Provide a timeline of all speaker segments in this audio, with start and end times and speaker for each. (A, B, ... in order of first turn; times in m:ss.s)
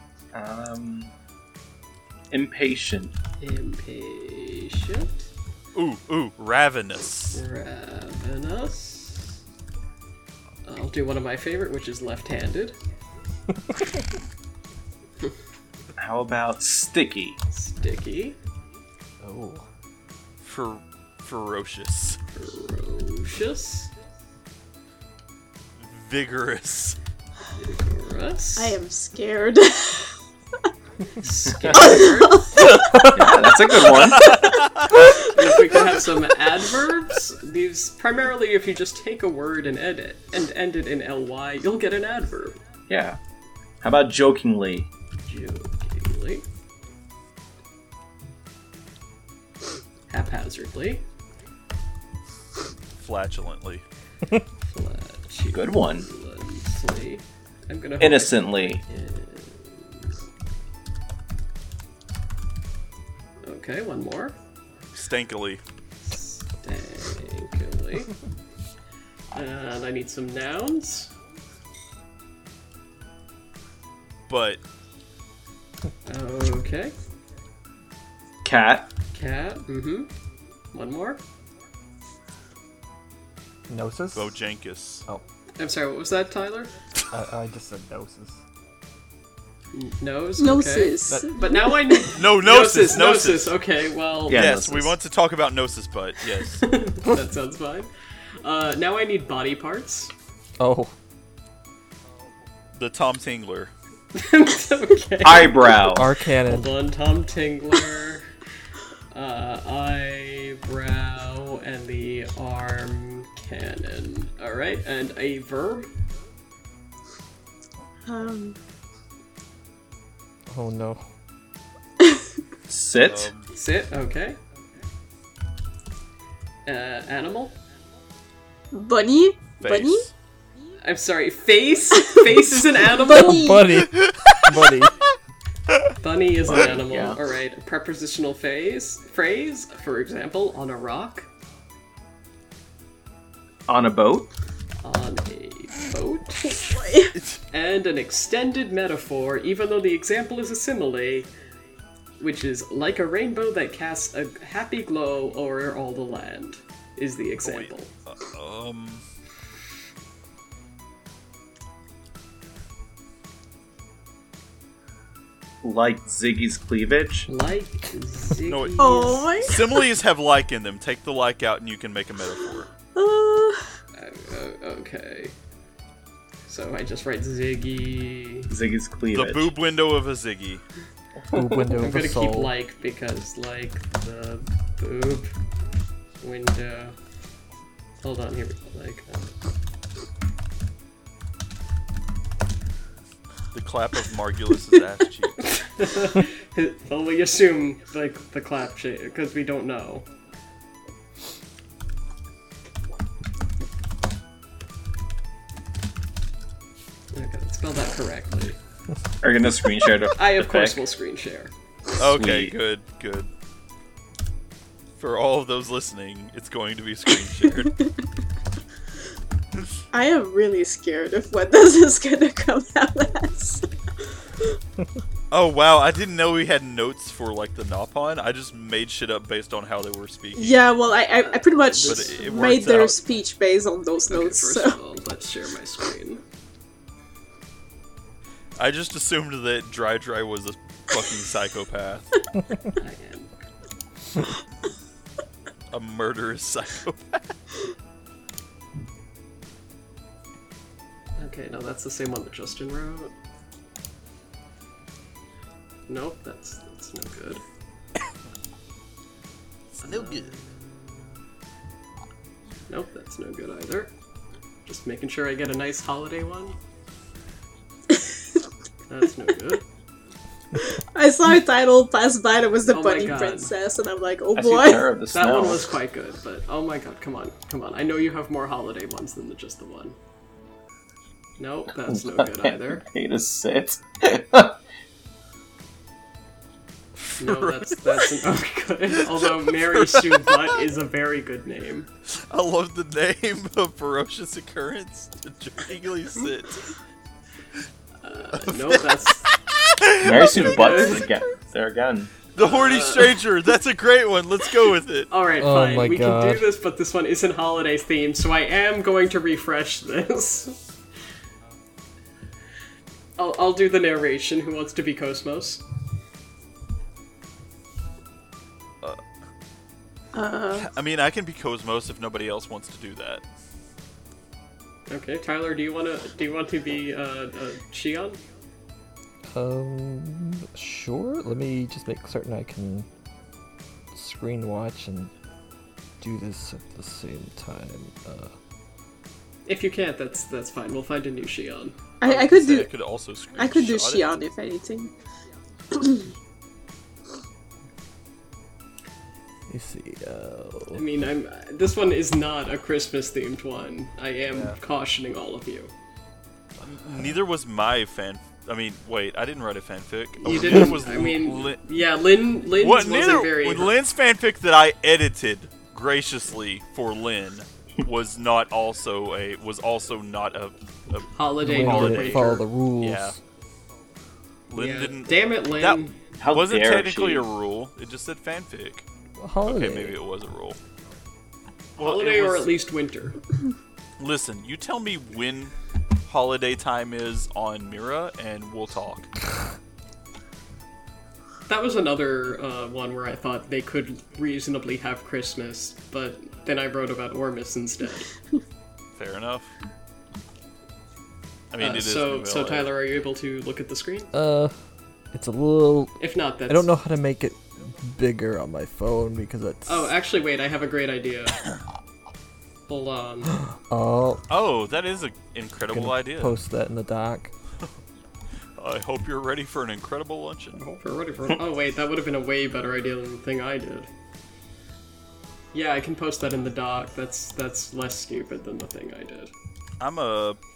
0:00.3-0:01.1 A
0:02.3-0:03.1 A
0:03.4-0:05.3 B
0:05.7-0:07.4 C
0:07.3-0:09.4 B
0:10.6-0:12.8 B
0:16.0-0:17.4 A
0:17.5-0:18.4 B
0:19.2-0:19.6 D
0:20.4-0:22.2 C
0:22.3-0:23.9 B
0:25.8-0:27.0 C
0:27.6-0:28.8 B
0:28.6-0:30.2 E
0:31.2-0:33.4 B
0:31.5-0:32.0 A
0:31.7-0:32.8 E
0:32.7-0:34.6 A
0:34.1-0:35.0 C
0:35.2-0:42.6 B
0:42.9-0:43.2 A
0:43.8-0:44.9 A
0:45.3-0:46.4 B
0:50.1-0:51.0 B
0:53.0-0:53.8 C
0:54.6-1:00.1 B
0:55.5-0:56.1 A
0:58.0-0:58.8 A
1:03.4-1:04.4 B
1:04.9-1:05.6 C
1:06.0-1:08.2 B
1:09.3-1:11.1 B
1:14.3-1:14.6 C
1:16.1-1:16.9 B
1:18.4-1:18.9 A
1:19.1-1:20.1 B
1:20.7-1:21.2 B
1:23.7-1:24.4 D
1:24.1-1:25.0 C
1:25.6-1:26.7 B
1:27.1-1:28.4 D
1:29.7-1:34.4 B
1:30.4-1:32.1 E
1:32.2-1:33.6 C
1:34.3-1:35.0 A
1:34.3-1:36.7 C
1:36.6-1:37.9 B
1:38.4-1:40.1 B
1:40.6-1:40.9 D
1:42.7-1:43.7 C
1:44.1-1:45.9 B
1:45.2-1:46.1 A
1:45.9-1:46.7 D
1:46.4-1:48.3 B
1:49.1-1:55.9 B
1:58.1-1:58.6 E
2:00.5-2:01.0 D
2:02.7-2:03.3 A
2:03.0-2:03.5 C
2:03.5-2:04.4 B
2:06.6-2:07.6 B
2:08.7-2:10.1 E
2:09.6-2:10.1 C
2:10.8-2:13.5 B
2:12.9-2:13.7 E
2:13.0-2:14.9 D
2:13.9-2:14.4 C
2:16.0-2:21.3 B
2:16.4-2:17.2 A
2:23.7-2:24.3 A
2:24.8-2:26.6 B
2:26.5-2:27.2 E
2:27.5-2:31.3 B
2:32.2-2:37.9 B
2:37.4-2:39.0 C
2:45.6-2:47.3 A
2:47.3-2:49.2 B
2:48.4-2:52.7 C
2:48.8-2:49.8 E
2:52.9-2:53.8 E
2:54.0-2:55.3 B
2:56.5-2:58.5 B
2:58.5-2:59.5 A
2:59.1-3:00.6 C
3:01.3-3:02.5 D
3:01.6-3:05.3 B
3:06.2-3:06.9 B
3:08.0-3:09.3 B
3:13.5-3:15.6 C
3:15.4-3:20.1 B
3:27.1-3:28.6 B
3:29.2-3:30.8 A
3:30.2-3:31.5 B
3:32.0-3:33.3 C
3:32.0-3:32.6 A
3:35.0-3:37.8 C
3:39.9-3:43.7 E
3:45.3-3:50.7 C
3:50.4-3:54.8 E
3:51.2-3:52.6 B
3:51.8-3:53.0 C
3:54.1-3:56.2 B
3:58.6-4:02.1 C
4:02.8-4:03.3 B
4:05.7-4:07.3 C
4:11.2-4:13.1 B
4:15.9-4:17.4 B
4:19.7-4:20.4 C
4:19.8-4:21.1 B
4:22.7-4:23.9 B
4:24.6-4:26.6 B
4:28.9-4:29.6 B
4:30.6-4:34.9 E
4:32.7-4:33.5 B
4:34.4-4:35.8 A
4:35.1-4:40.0 B
4:41.4-4:42.8 B
4:41.8-4:44.6 A
4:47.1-4:48.2 C
4:47.2-4:51.9 B
4:48.9-4:50.6 C
4:52.1-4:56.6 C
4:58.0-4:59.3 B
4:58.3-5:01.1 C
5:00.0-5:02.2 A
5:00.2-5:01.1 B
5:02.4-5:05.1 C
5:02.4-5:03.2 B
5:05.1-5:10.6 B
5:05.4-5:06.4 D
5:13.2-5:15.6 B
5:20.1-5:20.7 E
5:20.5-5:23.2 C
5:24.9-5:28.2 B
5:29.3-5:32.9 D
5:33.9-5:35.1 D
5:36.0-5:38.4 D
5:39.4-5:41.8 B
5:42.0-5:42.7 E
5:42.0-5:44.1 C
5:43.4-5:44.9 E
5:45.8-5:46.0 E
5:49.5-5:50.8 D
5:50.7-5:55.7 B
5:54.3-5:54.6 C
5:56.6-6:01.6 C
6:00.2-6:03.7 B
6:02.6-6:13.2 C
6:11.2-6:12.4 B
6:11.4-6:13.2 D
6:14.5-6:18.9 C
6:14.6-6:16.0 B
6:16.2-6:17.3 A
6:19.2-6:20.0 D
6:19.4-6:20.6 C
6:21.8-6:22.6 C
6:21.8-6:23.2 B
6:24.0-6:25.5 C
6:26.1-6:29.1 C
6:31.5-6:38.1 B
6:38.9-6:39.5 C
6:41.5-6:42.7 C
6:41.6-6:44.1 B
6:44.1-6:44.5 D
6:45.1-6:49.9 D
6:46.0-6:46.7 B
6:49.6-6:51.4 B
6:52.7-6:53.4 B
6:53.4-6:54.2 D
6:54.3-6:56.4 C
6:55.7-6:57.3 D
6:58.6-7:00.6 C
7:00.6-7:03.9 B
7:05.5-7:09.3 B
7:09.8-7:10.4 C